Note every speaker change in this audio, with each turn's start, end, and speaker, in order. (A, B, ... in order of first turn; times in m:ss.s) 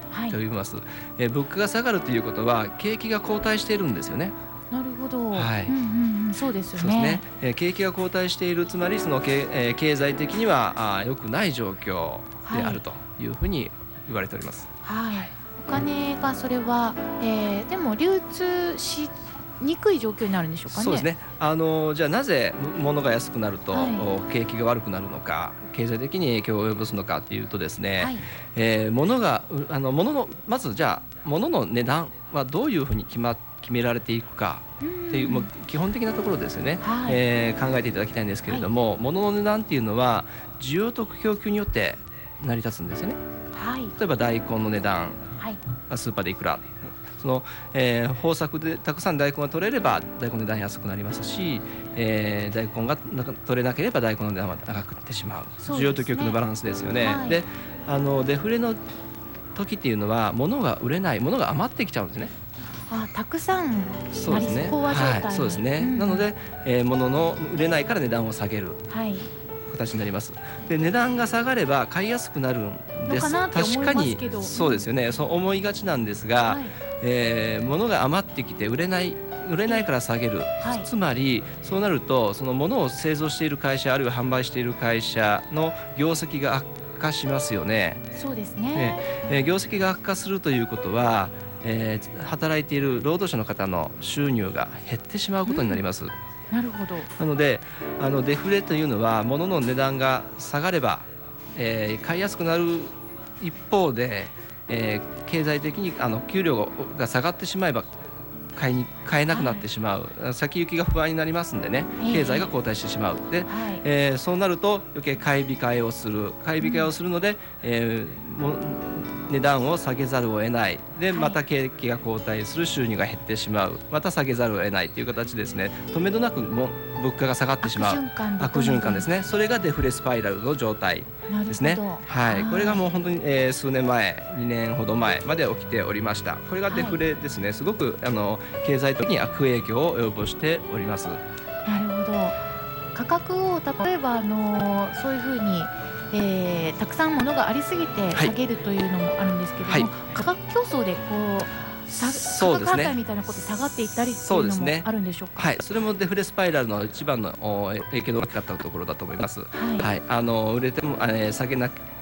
0:00.1-0:00.4 A
0:00.3-0:04.3 B
0:04.7-0:07.2 A
0:05.3-0:05.7 B
0:06.8-0:15.3 B
0:12.4-0:12.8 A
0:14.8-0:21.1 A
0:20.7-0:43.2 B
0:23.7-0:24.1 A
0:28.0-0:28.3 A
0:34.8-0:35.5 A
0:36.8-0:37.2 A
0:43.5-0:44.0 A
0:44.0-0:45.2 B
0:45.9-0:58.8 B
0:55.6-0:56.4 A
0:57.0-0:57.4 A
0:59.6-1:02.3 B
1:02.9-1:06.3 A
1:04.1-1:08.8 B
1:08.9-1:09.3 A
1:09.7-1:28.0 B
1:13.1-1:14.9 A
1:16.5-1:16.8 A
1:20.6-1:20.9 A
1:28.1-1:29.1 A
1:28.7-1:36.1 B
1:35.5-1:35.8 A
1:36.5-1:37.1 A
1:37.2-1:47.9 B
1:48.6-2:21.2 B
1:49.3-1:49.7 A
1:52.0-1:52.5 A
1:53.5-1:53.8 A
1:56.6-1:56.9 A
2:01.1-2:01.4 A
2:07.6-2:09.1 A
2:11.3-2:12.8 A
2:16.7-2:17.0 A
2:21.6-2:22.4 A
2:22.9-2:35.5 A
2:29.7-2:29.9 B
2:31.9-2:33.0 B
2:33.9-2:41.8 B
2:39.5-2:39.9 A